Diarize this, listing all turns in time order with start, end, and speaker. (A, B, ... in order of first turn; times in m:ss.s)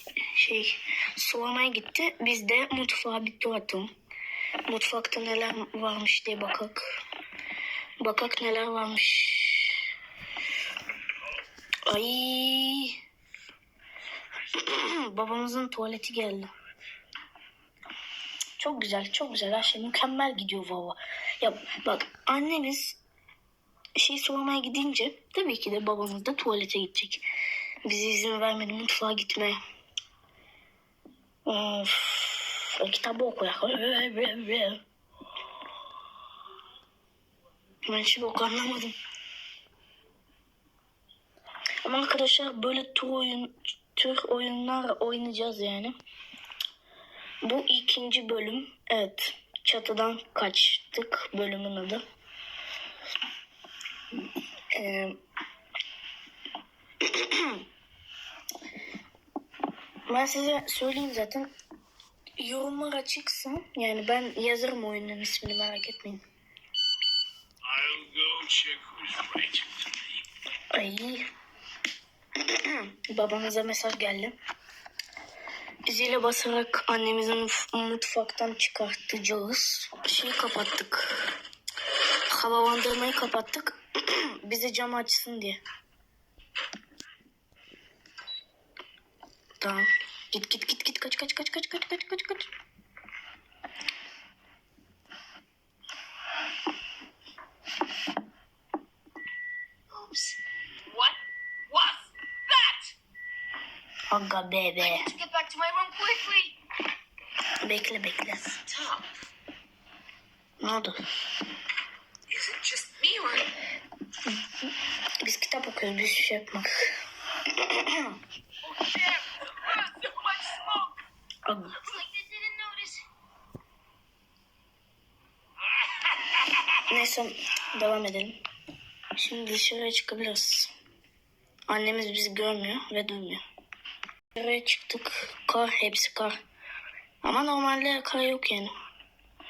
0:00.3-0:03.9 A
0:04.7-0:06.8 A
0:08.0-0:09.8 A
0:11.9-0:13.0 A
0:14.4-0:16.5 A
0:18.6-0:23.0 A
0:24.0-0:27.2 A
0:27.8-0:29.6 A
0:31.5-0:34.8 A
0:37.9-0:38.9 A
0:41.8-0:45.9 A
0:47.4-0:52.0 A
0:54.7-0:55.2 A
0:57.0-0:57.6 A
1:00.1-1:01.5 A
1:02.4-1:06.2 A
1:07.7-1:09.9 B
1:10.7-1:11.2 A
1:12.4-1:14.4 A
1:15.9-1:21.3 A
1:22.3-1:25.6 A
1:29.6-1:32.5 A
1:39.9-1:40.4 C
1:44.1-1:45.1 A
1:44.8-1:46.6 C
1:47.6-1:48.6 A
1:50.6-1:51.0 A
1:52.4-1:53.4 C
1:55.2-1:56.9 A
1:57.5-1:58.1 A
1:59.8-2:00.9 C
2:01.5-2:01.8 A
2:01.8-2:03.0 C
2:06.7-2:08.4 A
2:09.2-2:10.7 A
2:11.7-2:13.4 A
2:14.4-2:16.4 A
2:17.2-2:18.7 A